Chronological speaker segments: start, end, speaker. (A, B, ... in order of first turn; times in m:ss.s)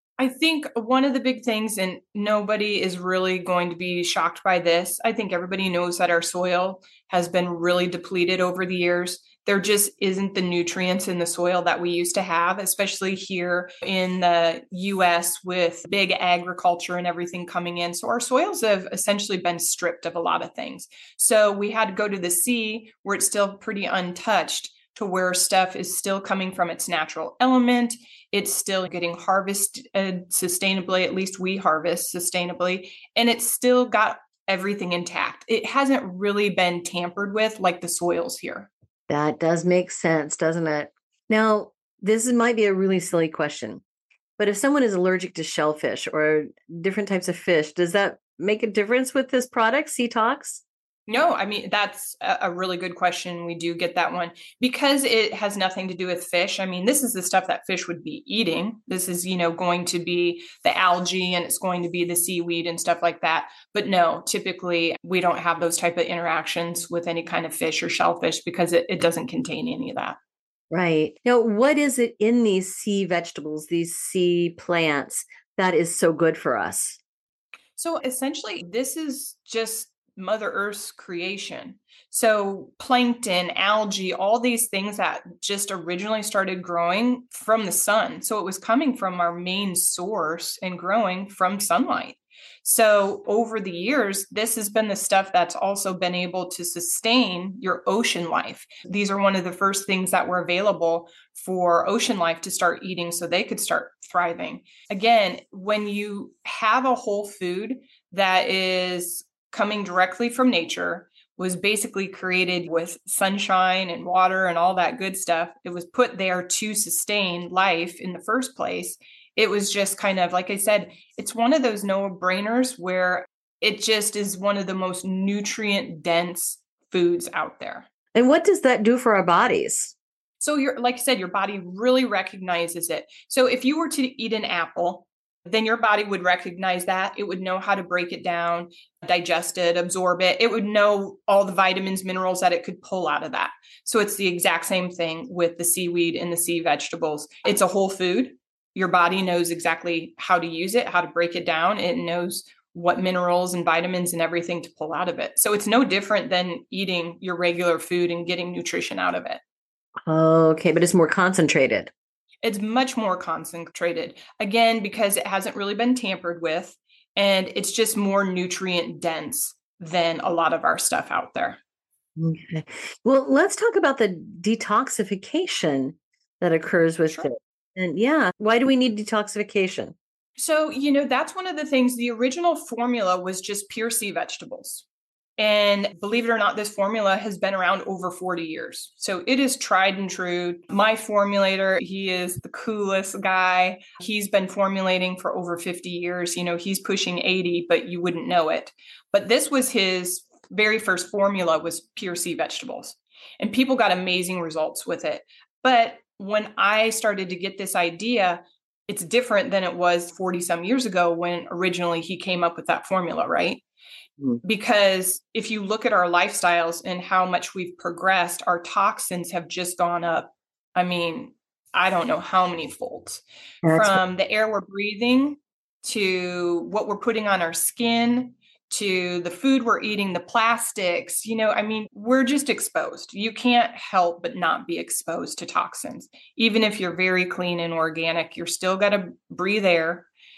0:00.2-0:38.7 A
0:39.1-0:43.8 B
0:44.4-0:50.6 B
0:51.1-1:10.2 A
1:10.7-1:17.0 B
1:17.8-2:07.8 A
2:08.1-2:09.9 B
2:10.4-2:39.4 A
2:40.0-2:41.9 B
2:42.4-2:51.6 A
2:52.2-2:59.9 B
3:00.4-3:04.8 A
3:05.4-3:33.6 A
3:34.4-3:43.2 A
3:43.6-3:44.0 B
3:43.7-4:00.1 A